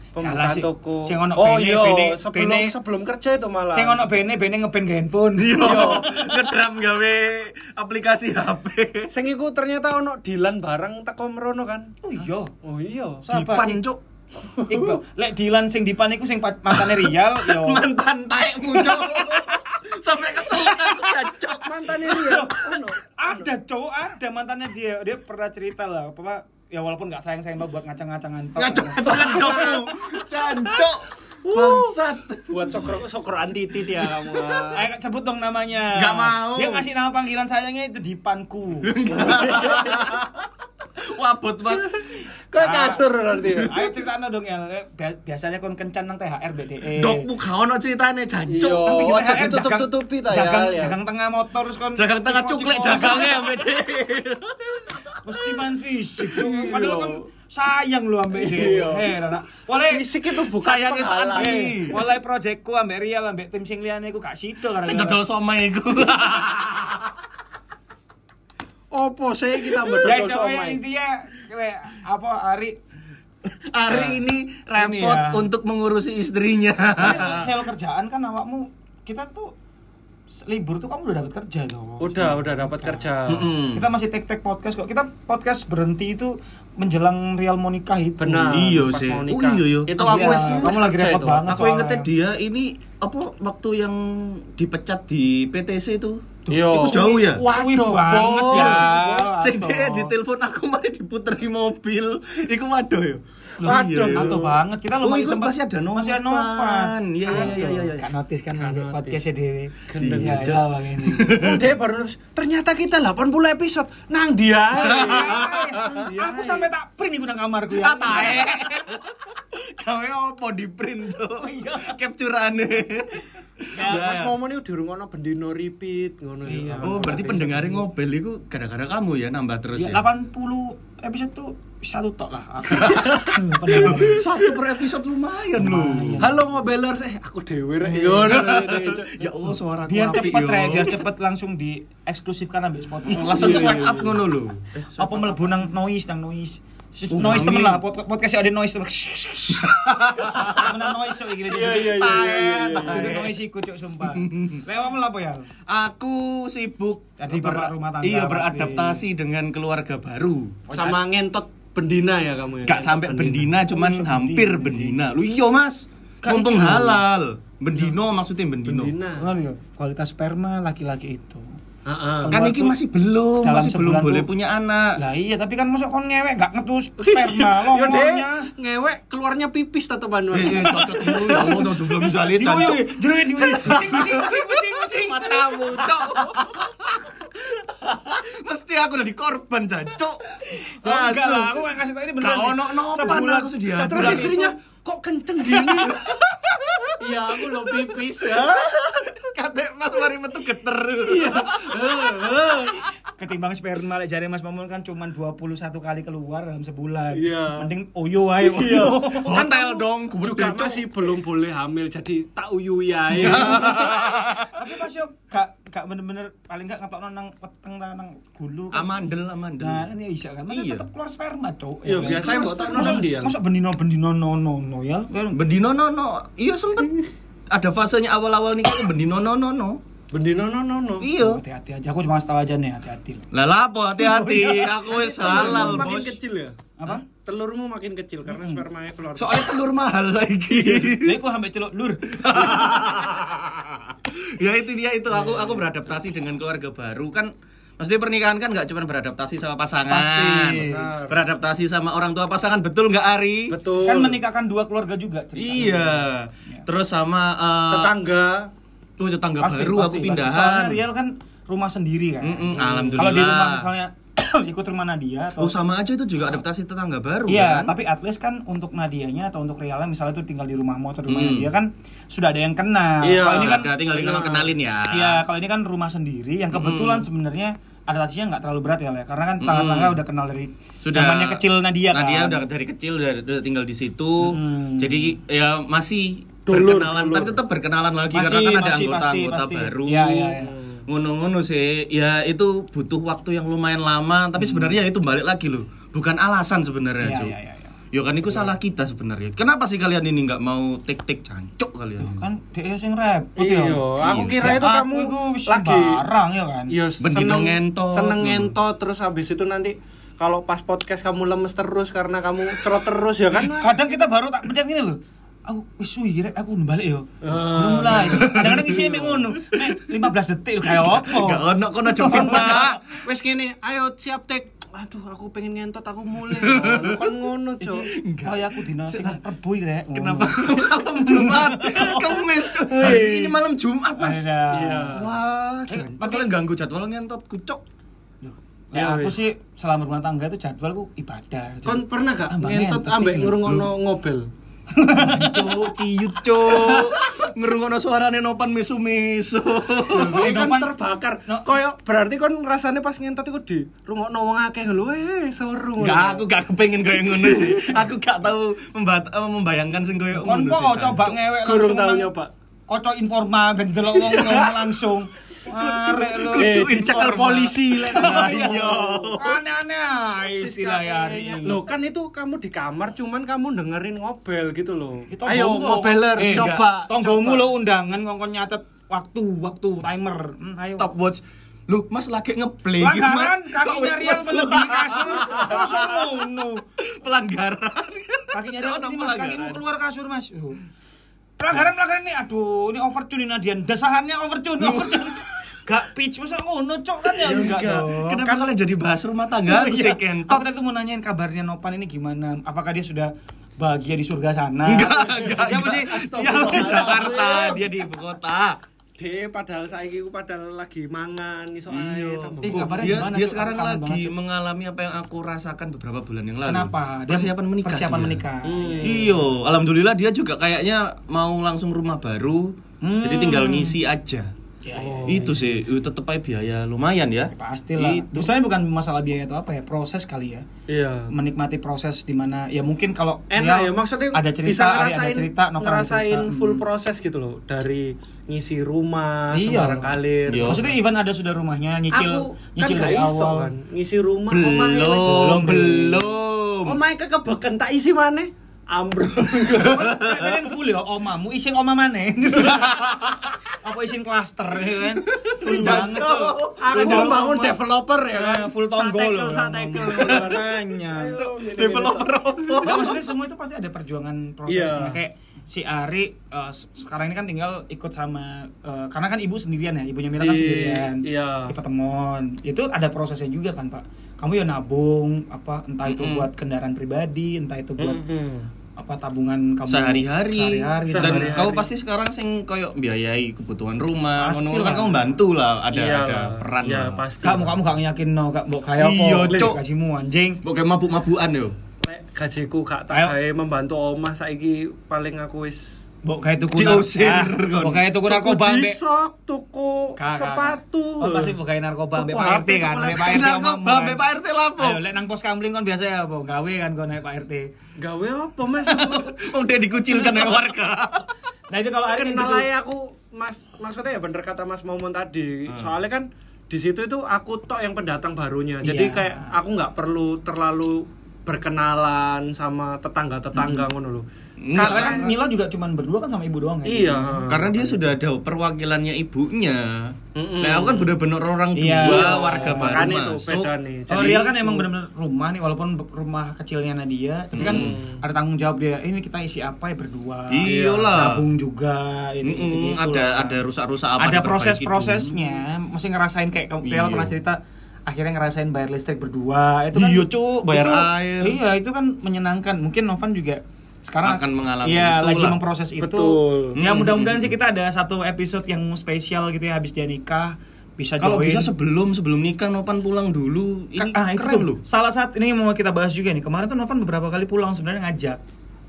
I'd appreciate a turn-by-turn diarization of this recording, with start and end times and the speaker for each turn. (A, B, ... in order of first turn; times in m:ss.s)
0:00.1-0:04.0 A
0:00.2-0:02.7 B
0:03.7-0:06.5 B
0:05.4-0:09.1 C
0:05.6-0:06.1 A
0:09.1-0:11.9 A
0:12.0-0:12.5 B
0:12.6-0:13.2 A
0:13.2-0:13.8 B
0:13.3-0:15.0 C
0:14.7-0:17.8 B
0:16.7-0:22.4 C
0:18.7-0:19.6 B
0:20.3-0:21.1 B
0:21.4-0:23.5 A
0:22.1-0:29.8 B
0:28.6-0:32.9 C
0:29.1-0:29.8 A
0:31.4-0:32.0 A
0:32.5-0:34.9 A
0:34.7-0:39.0 B
0:35.9-0:36.8 C
0:38.8-0:41.9 C
0:39.1-0:40.1 A
0:41.7-0:43.7 A
0:42.6-0:47.3 B
0:46.9-0:49.0 C
0:48.5-0:51.0 A
0:48.8-0:53.6 B
0:51.9-0:55.6 C
0:55.2-1:00.1 B
0:56.3-0:57.2 A
0:58.3-0:59.2 A
0:59.8-1:01.9 A
1:00.6-1:02.0 C
1:01.3-1:05.2 B
1:04.8-1:07.2 C
1:08.9-1:10.8 A
1:09.7-1:10.0 C
1:10.0-1:12.8 B
1:13.4-1:17.5 C
1:13.9-1:14.2 B
1:14.8-1:15.4 B
1:17.0-1:19.5 B
1:20.3-1:23.1 B
1:22.0-1:23.5 A
1:23.3-1:23.8 C
1:23.7-1:28.7 B
1:28.2-1:31.5 A
1:28.5-1:30.8 C
1:30.0-1:32.1 B
1:31.5-1:37.4 C
1:36.4-1:40.1 B
1:36.5-1:39.2 A
1:38.5-1:44.4 C
1:43.6-1:51.3 B
1:43.6-1:44.6 A
1:45.0-1:48.1 C
1:47.3-1:47.9 A
1:48.5-1:49.2 A
1:49.9-1:50.6 A
1:50.0-1:51.7 C
1:51.3-1:56.7 A
1:54.7-1:59.0 B
1:54.8-1:56.0 C
1:57.7-2:04.3 C
2:01.4-2:02.0 B
2:03.7-2:04.2 B
2:03.8-2:07.8 A
2:06.4-2:07.8 B
2:06.8-2:10.0 C
2:09.8-2:14.3 B
2:12.7-2:13.2 C
2:12.7-2:14.4 A
2:13.7-2:16.2 C
2:15.5-2:16.4 B
2:16.2-2:19.3 A
2:17.8-2:18.5 B
2:18.3-2:21.0 C
2:19.8-2:23.8 B
2:23.1-2:25.5 C
2:23.3-2:24.2 A
2:25.0-2:35.5 B
2:27.1-2:27.8 C
2:29.6-2:30.8 C
2:30.3-2:30.6 A
2:31.5-2:33.1 A
2:31.7-2:33.4 C
2:34.0-2:34.6 C
2:35.7-2:40.6 C
2:37.2-2:39.0 B
2:40.7-2:41.0 B
2:40.7-2:43.5 A
2:42.6-2:48.9 C
2:43.6-2:45.0 B
2:46.2-2:47.0 B
2:48.6-2:49.3 A
2:49.2-2:51.5 B
2:51.8-2:52.4 A
2:52.2-2:52.8 B
2:52.3-2:55.0 C
2:53.4-2:54.3 B
2:55.0-2:58.5 B
2:57.0-3:01.6 A
3:00.3-3:02.8 C
3:00.5-3:06.6 B
3:03.5-3:06.8 C
3:03.6-3:03.9 A
3:06.4-3:06.9 A
3:08.1-3:11.6 C
3:10.5-3:14.5 B
3:12.2-3:14.3 C
3:13.8-3:16.0 A
3:15.5-3:22.4 C
3:17.0-3:19.0 A
3:21.0-3:22.8 A
3:23.0-3:29.4 B
3:27.1-3:27.7 A
3:28.4-3:34.0 A
3:29.1-3:31.0 C
3:33.1-3:34.6 C
3:33.2-3:33.7 B
3:34.5-3:45.4 B
3:38.7-3:39.9 C
3:40.5-3:40.8 C
3:41.8-3:43.3 A
3:42.0-3:42.9 C
3:45.3-3:49.8 C
3:50.1-3:51.1 A
3:51.0-3:51.4 C
3:51.2-3:53.3 B
3:53.3-3:56.2 C
3:54.0-3:55.9 B
3:54.9-3:59.5 A
3:56.8-3:57.0 B
3:58.3-3:58.6 B
3:59.2-4:01.2 C
4:00.6-4:03.0 B
4:02.1-4:13.6 C
4:05.2-4:05.6 A
4:09.9-4:10.9 B
4:10.6-4:11.2 A
4:13.5-4:14.2 A
4:13.8-4:16.6 B
4:15.4-4:17.9 C
4:17.7-4:18.5 A
4:19.0-4:20.8 C
4:19.4-4:25.5 B
4:22.2-4:23.7 C
4:22.5-4:23.0 A
4:25.4-4:27.7 C
4:27.3-4:34.3 B
4:31.1-4:31.5 C
4:33.0-4:34.5 A
4:33.2-4:35.2 C
4:34.9-4:42.5 B
4:36.5-4:37.1 C
4:39.4-4:40.0 C
4:40.8-4:57.3 C
4:44.2-4:45.1 B
4:46.4-4:47.4 A
4:48.1-4:50.6 B
4:54.4-4:54.7 B
4:57.0-4:57.8 B
4:57.9-5:02.2 C
5:02.0-5:06.7 B
5:03.4-5:06.0 A
5:04.0-5:04.6 C
5:06.7-5:13.8 A
5:07.0-5:08.5 C
5:13.5-5:22.8 B
5:17.2-5:18.8 A
5:17.9-5:19.9 C
5:20.6-5:22.8 C
5:22.0-5:27.9 A
5:26.3-5:27.1 C
5:27.6-5:33.3 B
5:27.9-5:29.2 C
5:29.9-5:34.3 C
5:34.0-5:35.1 B
5:34.5-5:35.0 A
5:34.9-5:37.6 C
5:35.7-5:36.3 B
5:38.2-5:43.7 B
5:38.7-5:39.2 A
5:41.6-5:44.3 A
5:44.7-5:45.7 B
5:45.0-5:50.3 C
5:46.4-5:47.3 A
5:49.9-5:50.7 B
5:49.9-5:56.2 A
5:55.8-6:01.2 C
5:57.1-5:57.8 A
6:00.1-6:02.1 B
6:01.3-6:02.3 A
6:02.7-6:06.7 B
6:04.0-6:04.5 A
6:05.4-6:09.4 C
6:06.4-6:09.1 A
6:07.8-6:11.6 B
6:10.4-6:17.5 A
6:15.1-6:20.9 B
6:16.2-6:16.7 C
6:20.7-6:26.2 C
6:22.8-6:26.6 B
6:26.8-6:29.6 C
6:28.3-6:30.6 B
6:31.4-6:38.4 B
6:34.6-6:35.2 C
6:37.2-6:40.5 C
6:39.4-6:47.4 B
6:44.6-6:48.6 C
6:45.0-6:47.6 A
6:49.0-6:52.9 A
6:51.7-6:58.2 C
6:52.4-6:54.1 B
6:56.4-6:59.2 B
6:58.4-6:59.1 A
6:58.8-7:04.3 C
7:02.8-7:03.8 B
7:04.6-7:05.4 B
7:04.7-7:05.4 A
7:05.1-7:08.3 C
7:07.3-7:10.4 B
7:10.7-7:11.1 A
7:11.1-7:16.6 B
7:13.3-7:20.7 A
7:19.3-7:23.5 B
7:20.3-7:20.6 C
7:21.9-7:25.6 A
7:24.3-7:26.8 C
7:25.0-7:26.0 B
7:26.6-7:29.8 A
7:29.4-7:30.4 C
7:29.6-7:37.6 B
7:32.4-7:33.3 C
7:35.0-7:37.5 C
7:35.4-7:35.9 A
7:36.6-7:43.0 A
7:38.1-7:41.2 B
7:39.8-7:40.4 C
7:41.1-7:43.0 C
7:42.6-7:58.0 B
7:44.5-7:45.0 A
7:50.2-7:51.5 A
7:55.8-7:56.3 C
7:57.8-7:58.5 A
7:58.8-8:01.5 B
7:59.7-8:07.0 C
8:00.8-8:01.7 A
8:04.2-8:05.2 B
8:05.7-8:07.6 A
8:07.2-8:10.4 B
8:08.8-8:09.6 C
8:10.4-8:11.6 C
8:11.8-8:15.8 A
8:16.0-8:18.8 B
8:16.5-8:17.8 C
8:18.1-8:21.3 A
8:20.0-8:24.0 B
8:21.9-8:23.0 A
8:22.8-8:24.8 C
8:24.6-8:27.5 B
8:27.8-8:29.2 A
8:28.9-8:31.1 C
8:29.9-8:30.5 B
8:31.5-8:32.5 B
8:31.9-8:45.1 A
8:35.5-8:35.7 C
8:38.6-8:39.4 B
8:43.3-8:43.7 B
8:44.4-8:45.1 C
8:44.5-8:47.8 B
8:46.6-8:47.5 A
8:47.3-8:53.5 C
8:50.1-8:50.9 A
8:51.5-8:52.9 B
8:51.8-8:54.7 A
8:53.9-9:03.4 B
8:57.3-8:57.8 C
8:57.4-8:58.0 A
9:00.3-9:01.2 C
9:02.2-9:05.2 C
9:04.0-9:21.5 B
9:06.6-9:07.2 C
9:09.7-9:11.4 C
9:14.0-9:15.4 C
9:15.8-9:16.6 A
9:16.6-9:17.3 C
9:21.0-9:24.6 C
9:23.8-9:28.2 B